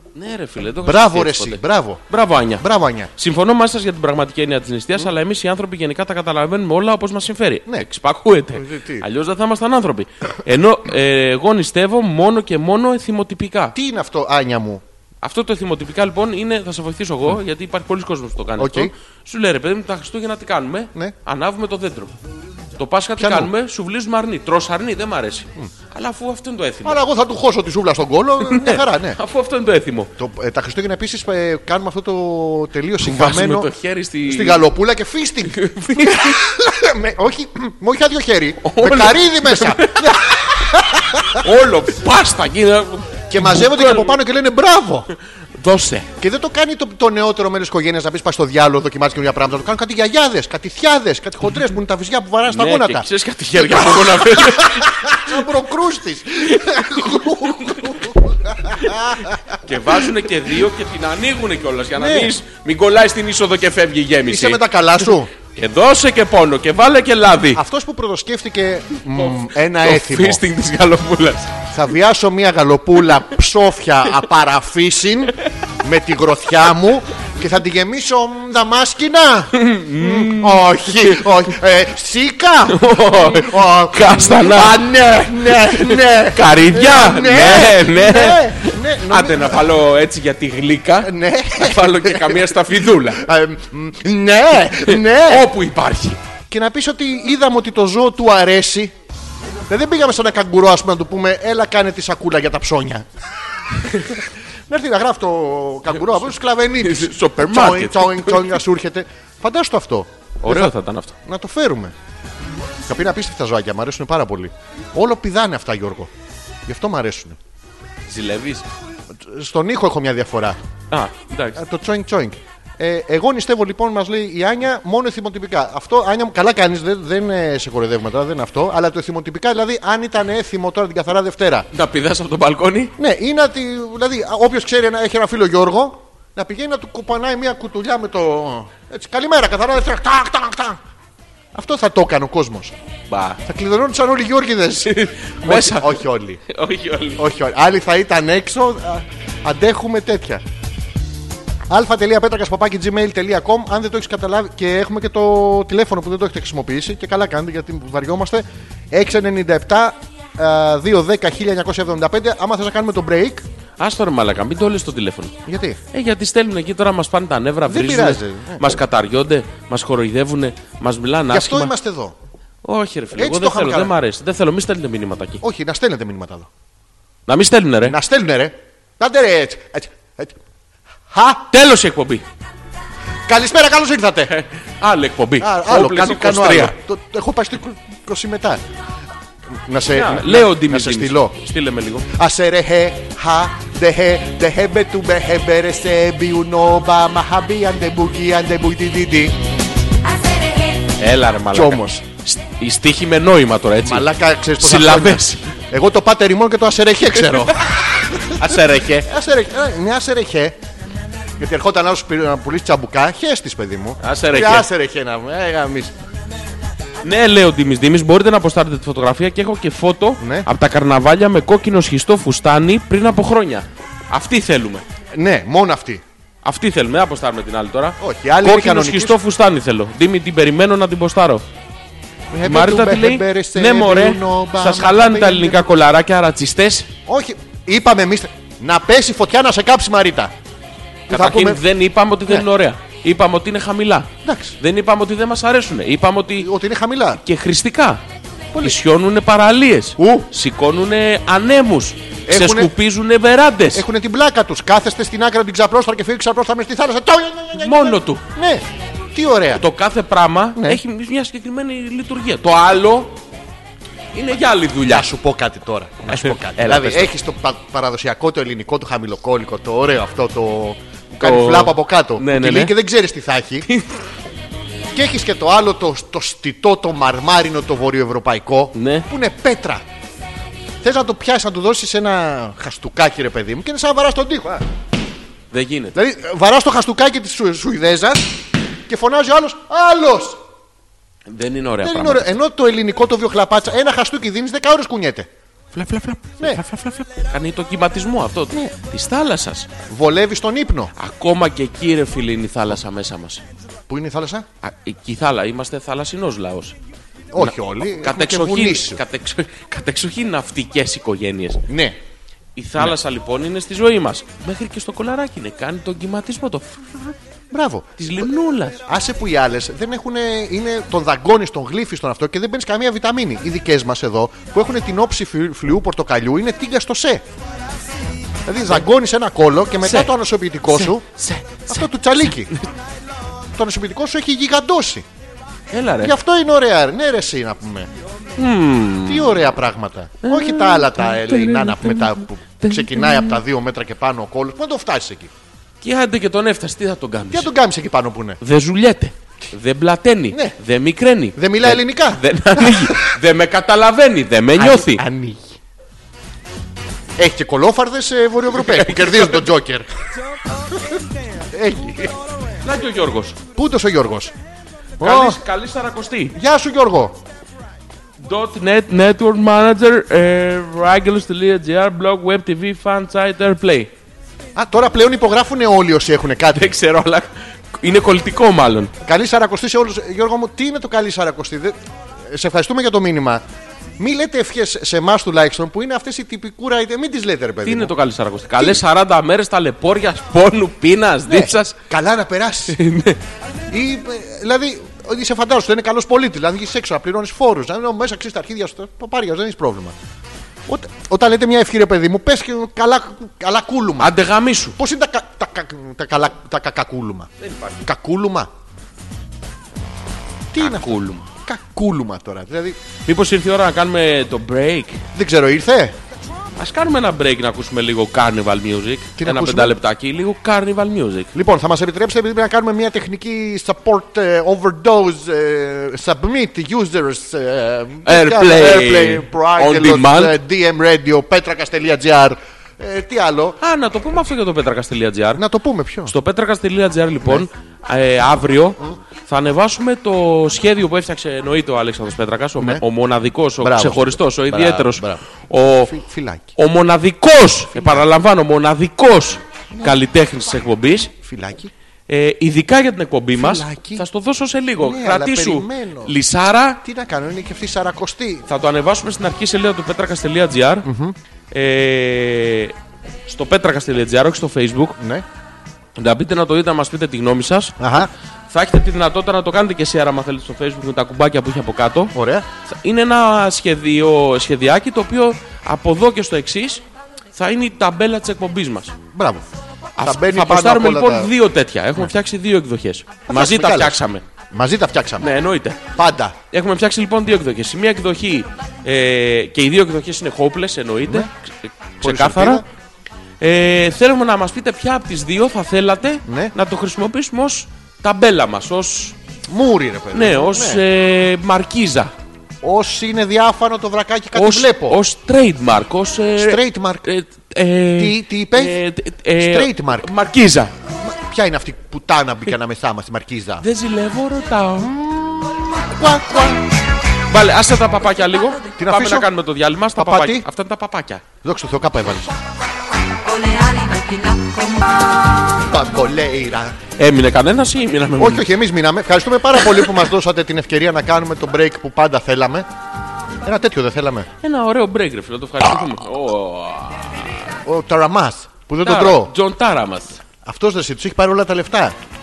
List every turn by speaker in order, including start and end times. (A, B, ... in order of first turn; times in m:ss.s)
0:00.1-0:02.6 A
0:00.8-0:02.0 B
0:02.6-0:03.1 B
0:03.2-0:13.8 A
0:08.5-0:09.1 B
0:13.7-0:14.8 B
0:15.2-0:22.1 A
0:18.6-0:18.9 B
0:22.8-0:27.0 A
0:23.2-0:23.5 B
0:26.8-0:29.2 B
0:28.4-0:30.1 A
0:30.2-0:33.7 B
0:33.0-0:34.7 A
0:34.2-0:41.5 B
0:35.5-0:36.4 A
0:38.6-0:40.4 A
0:41.4-0:44.2 A
0:43.3-0:45.1 B
0:45.6-0:46.1 A
0:46.2-1:00.0 B
0:52.5-0:55.3 A
0:56.6-0:57.8 A
0:58.8-1:04.6 A
1:02.0-1:02.3 B
1:04.3-1:05.3 B
1:05.5-1:07.6 A
1:07.5-1:10.4 B
1:09.2-1:11.6 A
1:11.7-1:29.7 B
1:19.5-1:21.2 A
1:22.7-1:24.8 A
1:25.5-1:33.3 A
1:31.0-1:35.5 B
1:34.8-1:36.2 A
1:36.5-1:38.9 B
1:39.7-1:43.1 B
1:43.8-1:51.9 B
1:46.8-1:48.6 A
1:50.4-1:51.1 A
1:52.8-1:56.1 B
1:56.6-1:57.4 B
1:58.1-1:58.6 A
1:59.1-2:00.6 B
2:00.9-2:01.6 A
2:01.5-2:11.7 B
2:11.7-2:12.9 A
2:13.0-2:20.8 B
2:21.5-2:22.7 B
2:23.1-2:23.4 A
2:23.4-2:26.4 B
2:24.8-2:27.3 A
2:27.2-2:30.4 B
2:31.7-2:43.4 B
2:43.8-2:45.4 A
2:45.4-2:45.8 B
2:45.9-2:51.7 A
2:47.6-2:48.7 B
2:51.3-2:52.1 B
2:52.6-2:55.4 A
2:53.1-2:53.9 B
2:55.4-2:56.5 B
2:57.3-2:58.0 A
2:57.8-3:00.4 B
3:01.1-3:01.5 B
3:01.5-3:02.2 A
3:03.2-3:04.3 B
3:04.3-3:06.7 A
3:05.4-3:08.6 B
3:09.5-3:11.4 B
3:09.9-3:12.1 A
3:12.1-3:19.4 B
3:20.1-3:20.8 C
3:20.9-3:24.1 A
3:21.5-3:22.0 B
3:23.8-3:30.6 B
3:24.6-3:25.5 A
3:28.3-3:29.1 A
3:31.4-3:35.9 B
3:34.0-3:34.7 A
3:37.0-3:44.8 A
3:40.2-3:40.5 B
3:45.1-3:46.0 B
3:46.4-3:51.4 A
3:48.0-3:49.2 B
3:52.3-3:55.6 B
3:52.4-3:56.9 A
3:57.1-4:00.3 B
4:01.1-4:01.6 B
4:01.1-4:06.5 A
4:04.2-4:04.6 B
4:06.4-4:07.2 B
4:07.2-4:08.0 A
4:08.5-4:08.8 B
4:08.6-4:13.8 A
4:10.0-4:10.3 B
4:12.3-4:12.7 B
4:13.7-4:19.6 B
4:17.6-4:18.2 A
4:19.6-4:23.2 A
4:20.6-4:20.8 B
4:24.1-4:25.1 A
4:24.8-4:33.7 B
4:26.1-4:27.1 A
4:31.2-4:32.7 A
4:33.6-4:33.9 A
4:34.9-4:39.8 B
4:38.7-4:39.1 A
4:40.8-4:44.6 B
4:45.5-4:45.9 A
4:45.9-4:48.4 B
4:48.9-4:50.4 B
4:51.3-4:52.3 A
4:51.8-4:55.3 B
4:55.7-4:59.7 A
4:56.4-4:56.6 B
4:59.9-5:00.9 B
5:01.0-5:03.4 A
5:03.9-5:04.5 B
5:04.6-5:06.8 A
5:07.3-5:09.0 B
5:07.4-5:11.6 A
5:11.7-5:12.0 B
5:12.6-5:17.1 A
5:17.5-5:18.2 B
5:18.0-5:18.8 A
5:18.8-5:27.2 B
5:28.4-5:31.0 B
5:29.8-5:30.1 A
5:30.7-5:31.9 A
5:31.7-5:32.5 B
5:33.5-5:35.0 B
5:35.7-5:36.1 A
5:36.0-5:37.9 B
5:38.4-5:39.3 A
5:39.0-5:45.3 B
5:40.2-5:43.4 A
5:45.8-5:47.5 A
5:47.3-5:48.4 B
5:48.4-5:55.0 A
5:51.4-5:53.1 B
5:54.5-5:55.6 B
5:57.2-5:59.9 B
5:58.6-5:59.4 A
6:00.7-6:02.2 B
6:02.6-6:03.4 A
6:03.5-6:04.3 B
6:05.0-6:05.4 B
6:05.0-6:06.4 A
6:06.3-6:07.2 B
6:08.2-6:13.9 A
6:14.5-6:16.7 B
6:16.5-6:18.9 A
6:19.0-6:23.4 B
6:24.0-6:27.9 B
6:27.6-6:31.8 A
6:31.3-6:32.8 B
6:32.7-6:33.2 A
6:33.7-6:40.0 B
6:40.7-6:44.1 B
6:44.0-6:44.8 A
6:44.8-6:47.3 B
6:47.4-6:47.8 A
6:47.8-6:48.5 B
6:50.5-6:52.8 B
6:50.6-6:51.3 A
6:53.0-6:55.0 A
6:55.1-6:56.0 B
6:56.6-7:01.3 A
6:59.2-6:59.8 B
7:01.3-7:13.6 B
7:08.0-7:10.4 A
7:13.6-7:15.4 A
7:15.4-7:16.1 B
7:16.0-7:25.9 A
7:22.6-7:22.8 B
7:23.6-7:26.5 B
7:26.6-7:31.1 A
7:27.7-7:28.0 B
7:29.7-7:30.0 B
7:31.2-7:31.7 B
7:32.1-7:36.8 A
7:33.3-7:34.0 B
7:34.8-7:36.2 B
7:36.8-7:38.4 B
7:38.5-7:40.9 A
7:40.8-7:41.2 B
7:41.5-7:42.7 A
7:43.3-7:45.0 A
7:45.0-7:45.2 B
7:46.0-7:52.1 A
7:47.8-7:48.1 B
7:52.1-7:52.4 B
7:52.6-7:56.8 A
7:57.3-7:59.0 A
7:59.1-7:59.4 B
8:00.0-8:04.2 A
8:00.0-8:01.3 B
8:03.3-8:04.0 B
8:04.5-8:05.3 B
8:05.2-8:05.8 A
8:05.9-8:06.4 B
8:06.5-8:12.6 A
8:12.0-8:12.6 B
8:13.4-8:19.2 A
8:16.2-8:16.5 B
8:19.5-8:20.8 B
8:20.1-8:22.1 A
8:22.6-8:25.0 B
8:24.3-8:30.7 A
8:26.4-8:27.1 B
8:28.0-8:28.8 B
8:29.4-8:30.1 B
8:31.0-8:33.6 B
8:33.6-8:34.9 A
8:34.8-8:36.6 B
8:37.3-8:41.2 A
8:38.7-8:39.3 B
8:40.0-8:40.5 B
8:41.4-8:42.3 B
8:43.2-8:45.1 C
8:45.6-8:46.8 B
8:47.0-8:48.5 A
8:48.2-8:52.7 B
8:53.4-8:54.3 B
8:54.4-8:57.5 A
8:57.6-8:59.3 B
8:58.8-9:00.2 A
9:00.4-9:02.0 B